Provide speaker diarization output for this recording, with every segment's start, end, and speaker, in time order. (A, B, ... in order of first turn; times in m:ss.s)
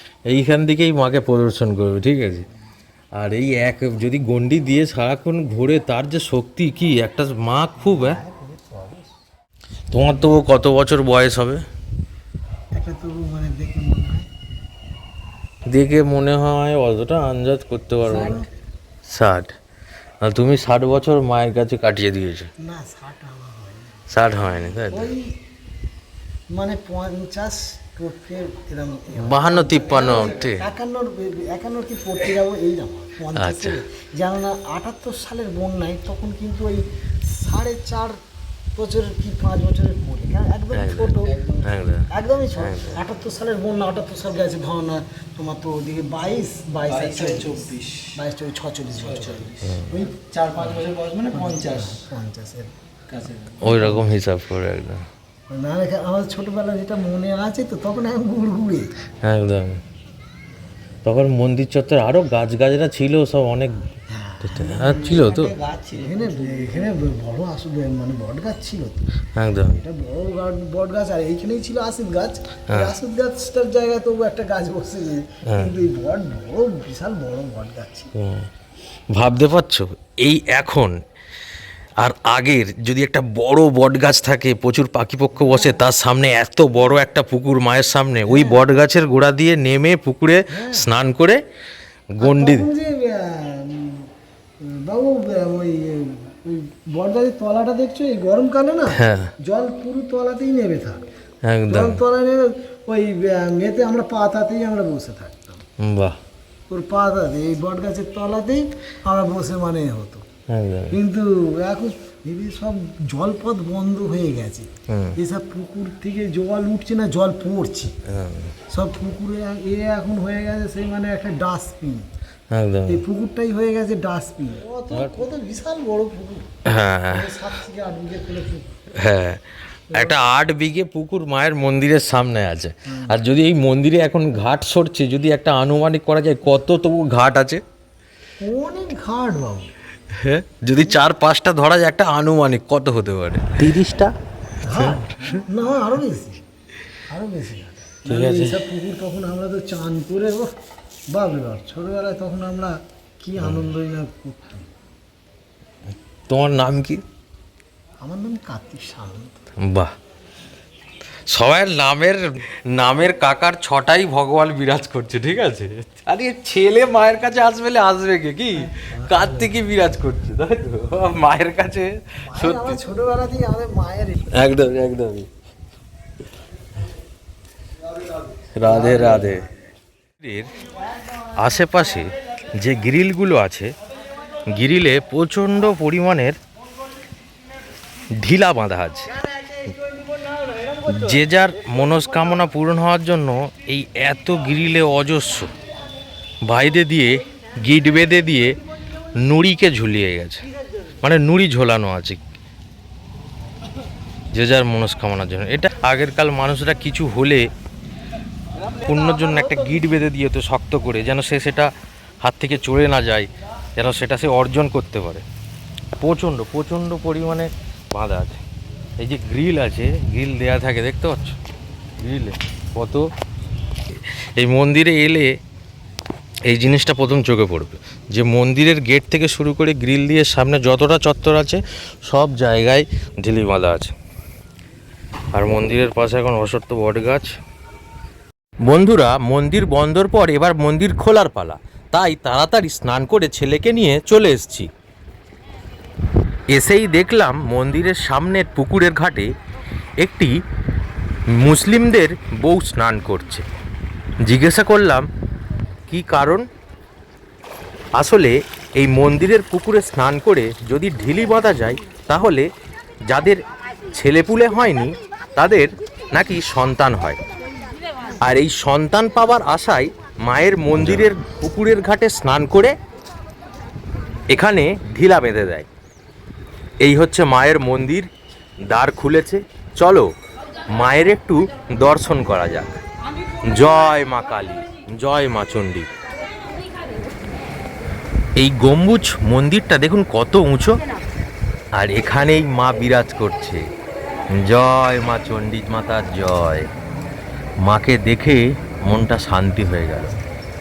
0:00.3-0:02.5 A
0:03.2-0:08.2 A
0:07.8-0:09.1 B
0:09.9-0:11.6 A
0:12.7-0:14.3 B
0:15.7-0:18.4 A
0:18.0-0:18.5 B
0:19.0-0:19.5 A
0:20.2-0:22.5 A
0:22.6-0:24.0 B
0:24.1-0:25.1 A
0:24.7-0:25.4 B
0:26.5-0:38.2 B
0:29.2-0:30.6 A
0:33.3-0:33.8 A
0:38.8-0:41.4 B
0:40.7-0:43.0 A
0:41.3-0:41.6 C
0:42.1-0:50.3 B
0:46.9-0:48.2 C
0:49.1-0:52.0 C
0:49.6-0:50.0 A
0:51.4-0:52.7 B
0:53.1-0:53.8 C
0:53.6-0:55.0 A
0:55.5-0:58.9 B
0:59.2-0:59.8 A
1:01.0-1:03.9 A
1:04.1-1:09.0 B
1:04.4-1:05.5 A
1:05.5-1:06.8 C
1:09.4-1:09.8 A
1:09.7-1:18.1 B
1:12.7-1:12.9 A
1:15.5-1:15.7 A
1:18.2-1:18.5 A
1:19.1-1:21.0 A
1:22.0-1:31.4 A
1:28.3-1:28.6 B
1:30.5-1:30.9 B
1:32.1-1:32.7 A
1:32.2-1:34.1 B
1:34.6-1:41.0 B
1:38.9-1:39.3 A
1:41.4-1:42.0 A
1:41.7-1:45.6 B
1:45.8-1:46.2 A
1:46.7-1:50.2 B
1:50.5-1:51.0 A
1:50.9-1:57.9 B
1:54.9-1:55.2 A
1:58.1-1:58.5 A
1:58.7-2:02.1 B
2:02.5-2:03.0 A
2:02.8-2:06.5 B
2:06.6-2:07.4 A
2:07.0-2:08.8 B
2:08.9-2:17.6 A
2:09.9-2:10.2 B
2:12.8-2:13.2 B
2:18.4-2:19.7 B
2:20.1-2:24.1 A
2:24.6-2:26.4 B
2:24.7-2:25.3 A
2:27.1-2:30.5 B
2:28.0-2:28.6 A
2:31.1-2:34.7 B
2:33.4-2:33.6 A
2:36.3-2:37.0 A
2:38.0-2:39.4 B
2:39.6-2:39.9 A
2:41.3-2:52.8 A
2:48.6-2:49.5 B
2:52.2-2:54.5 B
2:54.3-2:55.3 A
2:58.5-2:59.5 A
2:58.6-2:59.4 B
3:00.2-3:00.5 A
3:01.4-3:03.7 A
3:04.5-3:06.4 A
3:08.2-3:09.1 A
3:10.8-3:15.5 A
3:16.4-3:18.6 A
3:19.2-3:20.4 A
3:21.0-3:22.2 A
3:24.3-3:27.5 A
3:28.7-3:35.2 A
3:36.0-3:38.4 A
3:39.0-3:41.4 A
3:42.0-3:43.1 A
3:43.9-3:45.3 A
3:46.4-3:53.9 A
3:55.3-3:57.3 A
3:58.7-4:04.7 A
4:06.5-4:09.3 A
4:10.0-4:10.3 A
4:11.3-4:13.5 A
4:14.2-4:15.1 A
4:15.9-4:16.4 A
4:18.0-4:22.5 A
4:23.1-4:23.4 A
4:23.9-4:27.2 A
4:28.2-4:32.7 A
4:34.3-4:35.7 A
4:36.8-4:38.1 A
4:38.6-4:40.1 A
4:40.7-4:42.8 A
4:43.4-4:45.9 A
4:48.4-4:50.8 A
4:51.7-4:53.7 A
4:54.3-4:56.7 A
4:57.6-5:00.1 A